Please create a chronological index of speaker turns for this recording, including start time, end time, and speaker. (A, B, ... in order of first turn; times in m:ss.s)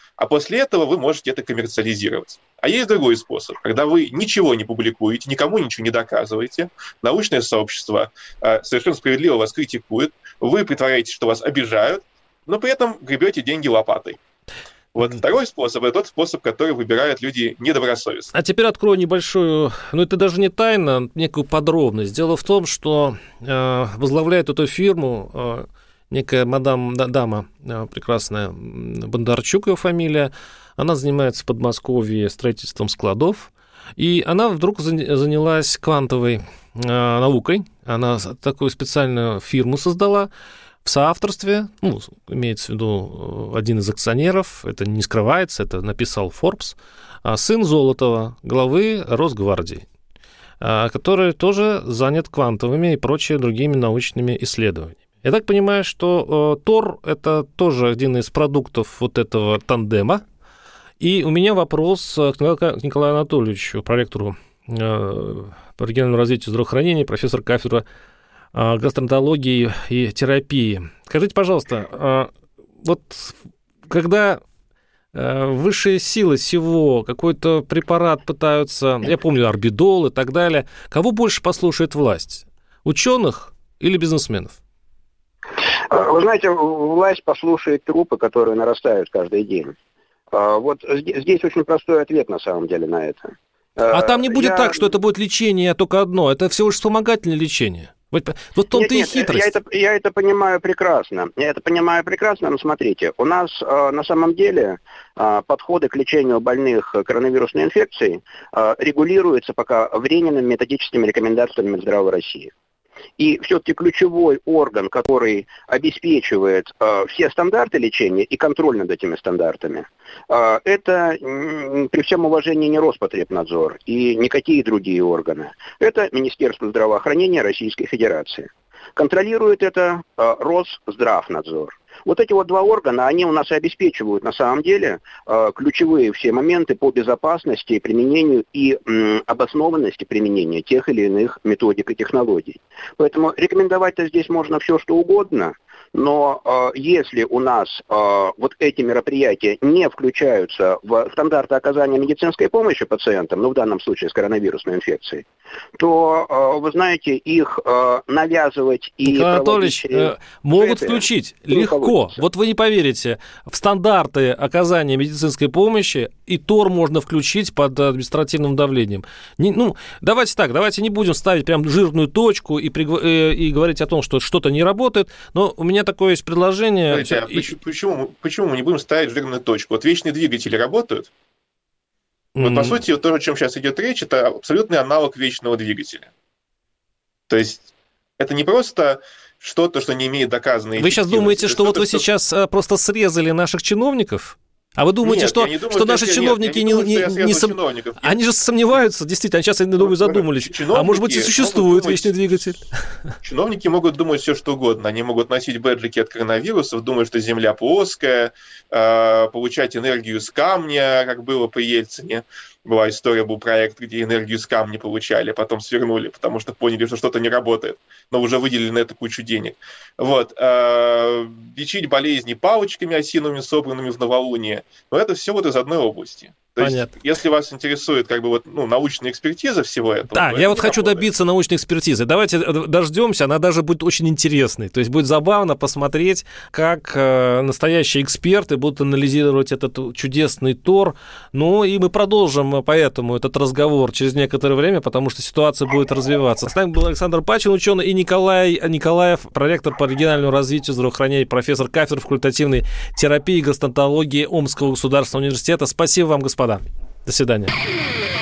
0:00.2-0:14.2 A
0:15.0-0:18.3 A
0:18.3-0:40.3 B
0:40.8-0:49.8 B
0:50.6-1:00.2 B
1:01.0-1:07.8 B
1:08.5-1:12.3 B
1:12.8-1:13.4 B
1:13.9-1:14.4 B
1:15.1-1:24.6 B
1:25.9-1:29.7 C
1:30.3-1:34.9 C
1:33.9-1:39.5 B
1:38.7-1:52.5 C
1:53.2-2:35.2 C
2:35.8-2:42.2 C
2:39.0-2:57.5 B
2:56.9-3:01.1 A
3:02.4-3:02.8 B
3:02.4-3:06.1 A
3:07.3-3:12.0 A
3:10.8-3:22.8 B
3:15.0-3:18.2 A
3:19.8-3:22.5 A
3:23.2-3:51.1 A
3:46.6-3:46.9 B
3:50.1-4:17.5 B